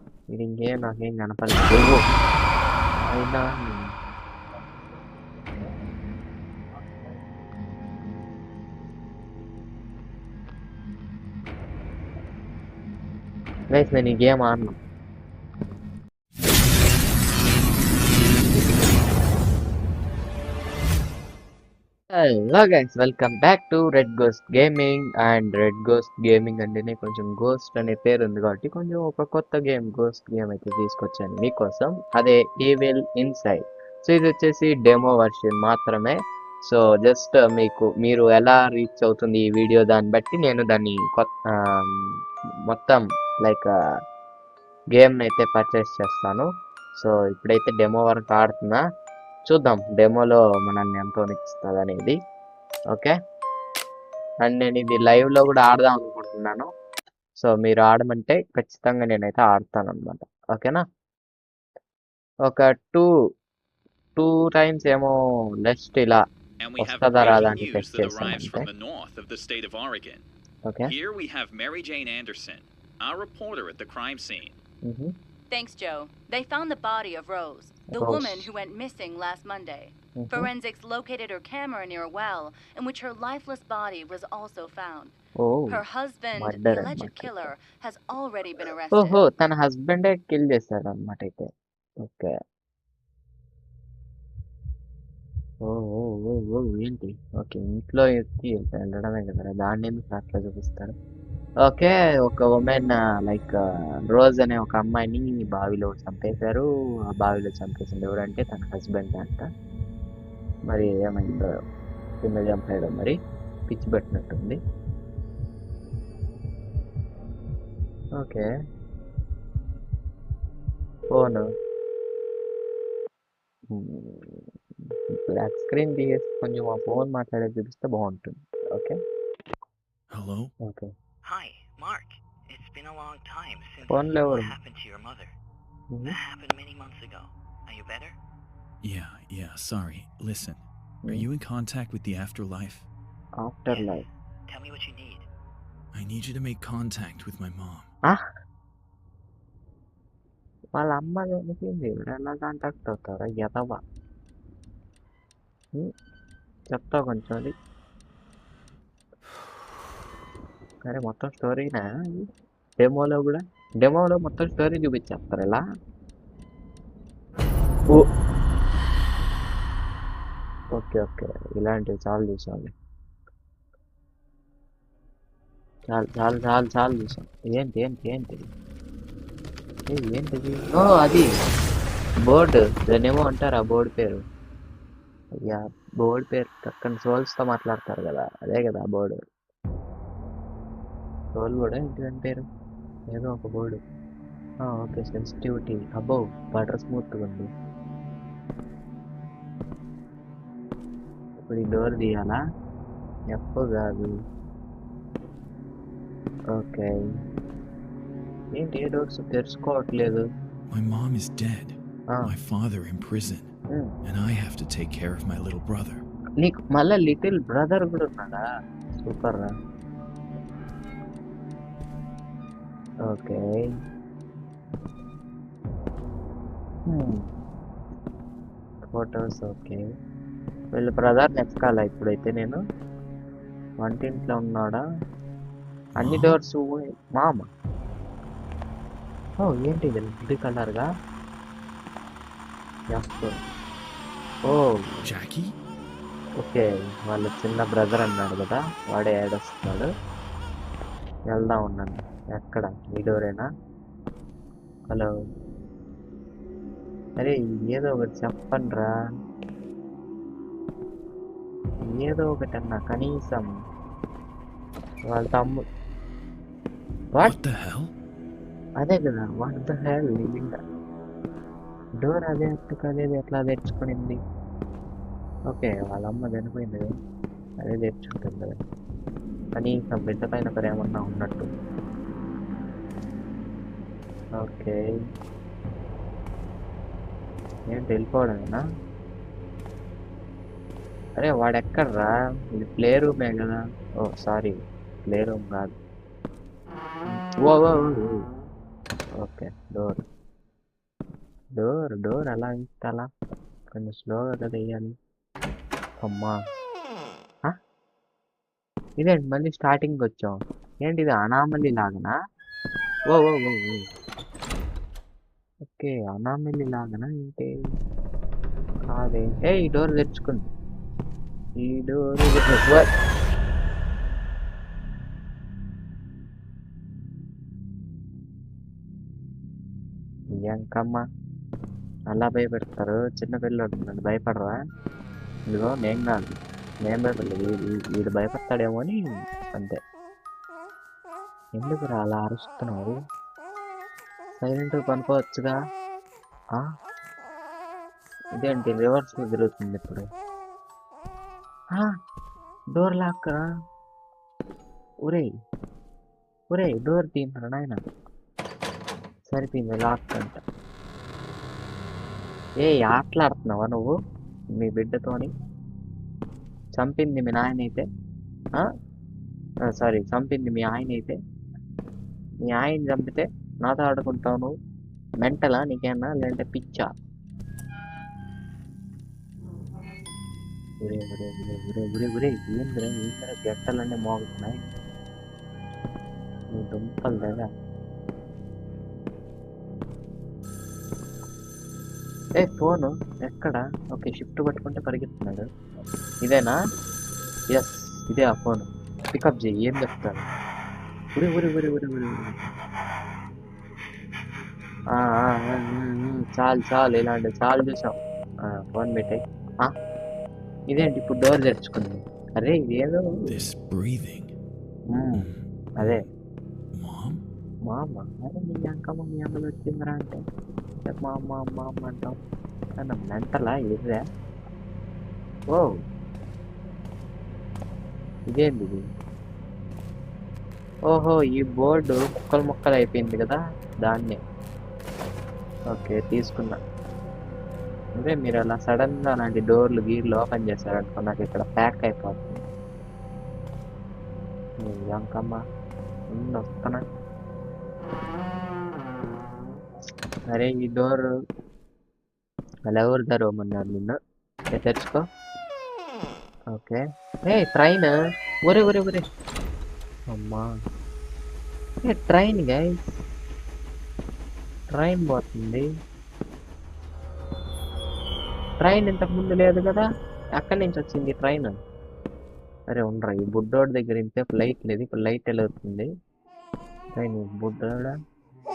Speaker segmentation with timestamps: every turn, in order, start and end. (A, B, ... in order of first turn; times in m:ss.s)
0:00.3-0:02.0 A
0:03.0-0:03.9 A
0:13.7-0:14.8 A
0:22.1-0:41.9 A
0:42.7-0:43.7 A
0:44.9-0:48.8 A
0:49.5-0:52.2 A
0:54.4-0:56.7 A
0:57.4-1:00.8 A
1:02.5-1:03.1 A
1:04.2-1:06.2 A
1:06.6-1:10.2 B
1:06.8-1:08.7 A
1:10.8-1:14.6 B
1:14.9-1:15.1 A
1:15.5-1:25.1 C
1:17.9-1:18.4 A
1:20.2-1:20.5 A
1:25.4-1:25.8 A
1:25.7-1:29.2 C
1:26.4-1:27.5 A
1:28.9-1:31.5 A
1:32.0-1:32.3 A
1:35.6-1:40.9 A
1:41.6-1:43.6 A
1:44.1-1:49.5 A
1:50.7-1:51.5 A
1:52.2-1:53.2 A
1:53.7-1:54.6 A
1:58.1-1:58.4 A
2:01.1-2:01.4 A
2:03.7-2:04.4 A
2:05.3-2:09.0 A
2:10.1-2:10.5 D
2:10.6-2:10.9 A
2:11.2-2:15.3 E
2:13.9-2:14.5 A
2:16.1-2:18.2 E
2:18.8-2:22.9 D
2:23.4-2:24.0 A
2:23.7-2:25.3 E
2:25.9-2:27.9 D
2:30.7-2:33.8 A
2:36.7-2:37.5 A
2:40.9-2:42.2 A
2:42.8-2:45.6 A
2:50.7-2:52.7 A
2:55.9-2:58.4 A
2:59.9-3:01.3 A
3:02.3-3:04.2 A
3:05.4-3:09.2 A
3:11.3-3:12.4 A
3:13.1-3:13.8 A
3:14.7-3:17.5 A
3:21.4-3:22.4 A
3:23.3-3:24.2 A
3:26.5-3:26.9 A
3:28.6-3:30.2 A
3:30.7-3:33.5 D
3:34.0-3:36.0 D
3:36.4-3:38.4 A
3:39.0-3:39.5 A
3:43.1-3:43.6 A
3:46.9-3:47.2 A
3:48.9-3:49.8 A
3:50.7-3:52.6 A
3:53.8-3:54.8 A
3:56.0-3:56.4 D
3:56.0-3:57.5 A
3:59.4-4:00.9 A
4:02.9-4:03.4 A
4:05.0-4:05.5 D
4:06.4-4:09.9 A
4:11.3-4:13.5 A
4:17.2-4:18.9 A
4:22.0-4:23.5 A
4:25.1-4:25.6 A
4:27.2-4:27.9 D
4:28.8-4:30.6 A
4:32.0-4:34.2 A
4:35.5-4:36.9 A
4:37.6-4:38.5 A
4:39.6-4:41.5 A
4:44.4-4:44.8 A
4:47.7-4:48.6 A
4:51.2-4:54.6 A
4:55.1-4:55.7 A
4:57.4-4:58.1 A
4:59.2-5:00.0 A
5:01.5-5:03.1 A
5:03.7-5:04.9 A
5:06.0-5:06.4 A
5:09.0-5:12.1 A
5:13.1-5:13.8 A
5:15.7-5:17.5 A
5:18.9-5:20.5 A
5:21.6-5:22.9 A
5:30.4-5:31.0 A
5:32.1-5:34.6 A
5:35.5-5:36.3 A
5:36.8-5:39.0 A
5:41.6-5:42.9 A
5:44.4-5:45.6 A
5:48.4-5:50.1 A
5:52.8-5:53.4 A
5:56.5-5:57.8 A
5:59.3-6:00.4 A
6:02.6-6:03.9 A
6:04.6-6:05.3 A
6:06.8-6:07.8 A
6:09.7-6:11.1 A
6:12.4-6:14.5 A
6:15.2-6:16.9 A
6:20.8-6:24.6 A
6:26.6-6:27.5 A
6:32.4-6:35.4 A
6:36.2-6:36.6 A
6:37.5-6:40.2 A
6:41.2-6:42.3 A
6:45.0-6:47.9 A
6:48.7-6:49.7 A
6:50.7-6:53.0 A
6:53.3-6:54.3 D
6:54.9-6:55.2 A
6:55.2-6:56.1 D
6:55.8-6:56.1 A
6:56.8-6:57.2 D
6:57.7-7:00.2 A
7:00.9-7:02.2 A
7:02.8-7:04.0 A
7:08.3-7:08.8 A
7:10.9-7:14.2 A
7:15.7-7:16.6 A
7:18.0-7:22.4 A
7:24.6-7:25.4 A
7:26.1-7:26.8 A
7:30.3-7:31.0 A
7:32.7-7:34.0 A
7:34.5-7:35.0 A
7:36.5-7:37.9 A
7:38.5-7:39.0 A
7:40.1-7:40.5 A
7:41.9-7:42.9 A
7:44.7-7:45.6 A
7:48.6-7:49.9 A
7:50.4-7:51.5 A
7:52.7-7:55.9 A
7:57.0-7:57.9 A